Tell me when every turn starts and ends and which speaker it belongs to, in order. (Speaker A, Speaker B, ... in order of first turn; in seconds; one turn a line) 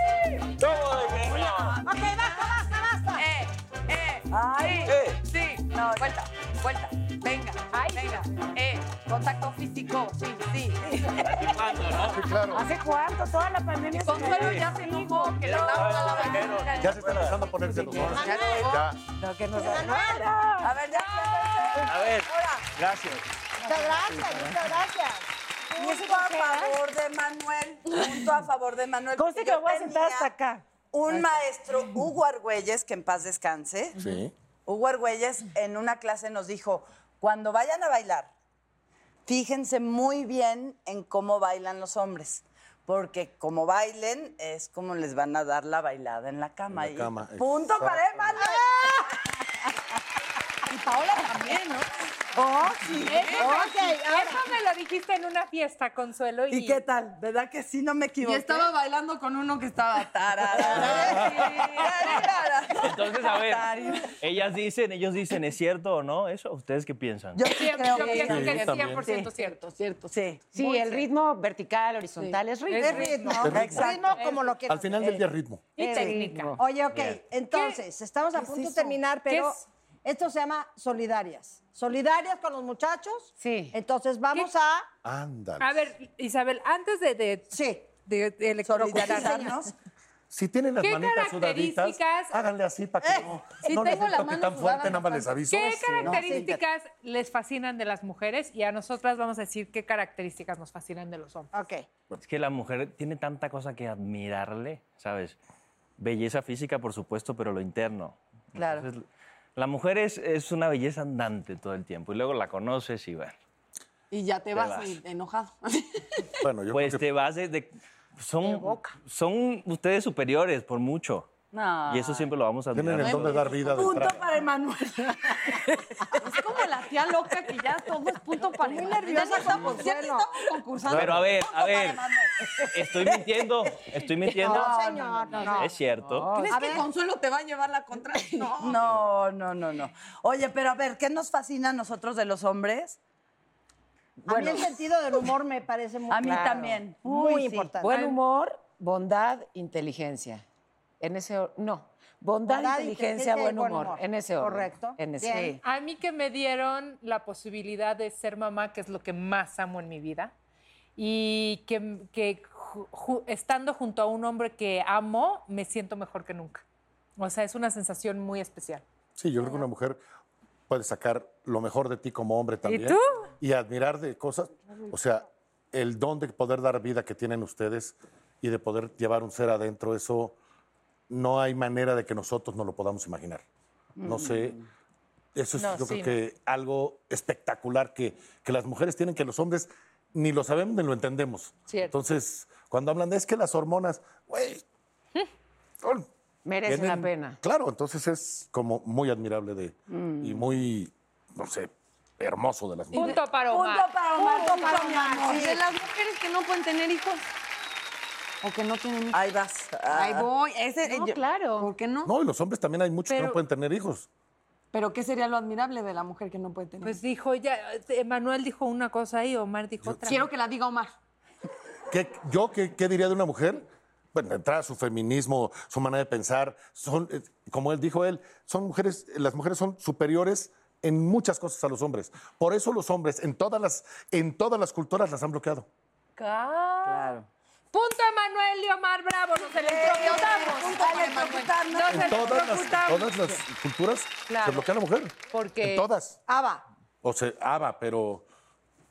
Speaker A: 0.6-1.8
Speaker B: 1.2-2.2
Speaker C: 1.8-3.3
Speaker B: 3.1-10.8
Speaker D: 4.3-5.0
Speaker A: 4.9-5.2
Speaker D: 5.7-6.3
Speaker E: 7.7-8.2
Speaker E: 10.8-12.0
Speaker A: 11.2-12.2
Speaker F: 12.0-12.7
Speaker E: 12.5-15.4
Speaker B: 14.1-17.0
Speaker A: 14.2-14.7
Speaker A: 15.4-18.2
Speaker F: 16.8-19.0
Speaker E: 17.6-18.4
Speaker C: 18.2-18.8
Speaker B: 18.2-18.9
Speaker E: 19.2-20.8
Speaker C: 19.6-20.3
Speaker D: 20.6-22.7
Speaker A: 21.8-23.2
Speaker E: 23.6-24.6
Speaker C: 23.6-25.3
Speaker E: 25.8-26.8
Speaker D: 25.8-30.3
Speaker E: 29.2-31.2
Speaker D: 30.9-34.0
Speaker F: 34.0-34.3
Speaker D: 34.7-38.3
Speaker D: 39.3-49.0
Speaker F: 46.7-48.4
Speaker C: 48.4-49.1
Speaker B: 50.7-51.9
Speaker D: 52.4-53.6
Speaker B: 53.0-53.5
Speaker G: 53.1-56.8
Speaker C: 53.4-54.5
Speaker D: 56.5-58.7
Speaker B: 58.2-62.5
Speaker D: 60.4-64.2
Speaker A: 62.7-67.5
Speaker D: 67.3-69.3
Speaker G: 67.5-69.6
Speaker B: 67.9-68.3
Speaker F: 68.2-69.1
Speaker B: 69.0-71.1
Speaker D: 70.1-70.4
Speaker E: 70.5-73.5
Speaker B: 72.2-72.4
Speaker G: 72.7-74.5
Speaker C: 72.8-75.2
Speaker F: 73.4-73.9
Speaker D: 73.5-74.2
Speaker F: 74.7-75.6
Speaker G: 75.8-76.6
Speaker E: 75.8-76.6
Speaker C: 76.6-84.9
Speaker A: 76.9-77.2
Speaker G: 77.5-77.8
Speaker G: 79.3-79.6
Speaker E: 83.4-83.8
Speaker F: 85.0-85.9
Speaker G: 85.6-89.5
Speaker C: 87.5-87.9
Speaker D: 88.6-89.7
Speaker C: 89.0-89.5
Speaker F: 90.3-96.0
Speaker G: 90.8-92.4
Speaker C: 93.0-93.3
Speaker B: 93.6-95.6
Speaker G: 95.4-101.5
Speaker D: 96.0-96.4
Speaker C: 96.0-96.6
Speaker C: 101.5-101.9
Speaker A: 102.2-105.4
Speaker A: 106.0-109.0
Speaker D: 108.5-108.9
Speaker A: 109.6-113.3
Speaker B: 114.1-116.4
Speaker A: 114.5-115.0
Speaker F: 116.4-117.1
Speaker A: 116.7-121.3
Speaker C: 118.5-118.8
Speaker D: 121.5-122.3
Speaker A: 121.9-123.6
Speaker F: 122.7-124.3
Speaker B: 123.0-123.5
Speaker D: 123.5-126.3
Speaker B: 126.2-132.7
Speaker C: 128.7-130.3
Speaker D: 129.3-129.8
Speaker F: 130.9-131.3
Speaker A: 130.9-132.0
Speaker A: 132.7-134.8
Speaker B: 134.3-135.7
Speaker C: 134.4-135.7
Speaker A: 135.6-136.3
Speaker E: 136.1-136.8
Speaker B: 136.2-138.9
Speaker C: 136.5-136.9
Speaker D: 138.5-143.0
Speaker E: 144.2-144.8
Speaker C: 144.3-147.9
Speaker D: 146.1-147.8
Speaker E: 147.8-150.4
Speaker G: 147.9-148.2
Speaker E: 151.0-155.6
Speaker C: 152.5-155.6
Speaker G: 155.6-160.3
Speaker G: 161.0-166.7
Speaker G: 167.2-168.8
Speaker F: 169.2-170.0
Speaker F: 170.7-180.4
Speaker G: 172.7-173.3
Speaker F: 181.1-183.4
Speaker D: 184.0-184.6
Speaker F: 184.0-184.6
Speaker F: 185.3-194.6
Speaker G: 185.6-186.2
Speaker G: 191.7-191.9
Speaker F: 195.8-196.1
Speaker E: 196.4-197.4
Speaker F: 196.7-203.2
Speaker D: 199.9-200.5
Speaker G: 202.9-204.0
Speaker D: 203.0-205.6
Speaker B: 204.2-207.2
Speaker B: 208.4-209.3
Speaker D: 209.1-210.3
Speaker B: 209.9-212.1
Speaker E: 210.8-211.7
Speaker F: 212.0-214.1
Speaker G: 213.1-213.4
Speaker B: 214.7-217.0
Speaker G: 216.8-220.3
Speaker B: 220.0-220.9
Speaker F: 221.9-235.7
Speaker G: 236.2-237.1
Speaker D: 236.8-237.3
Speaker G: 237.7-241.0
Speaker D: 239.4-242.6
Speaker B: 239.9-241.6
Speaker G: 241.7-243.3
Speaker F: 241.9-246.2
Speaker G: 244.3-244.7
Speaker G: 245.3-245.9
Speaker C: 246.3-246.6
Speaker F: 247.0-248.2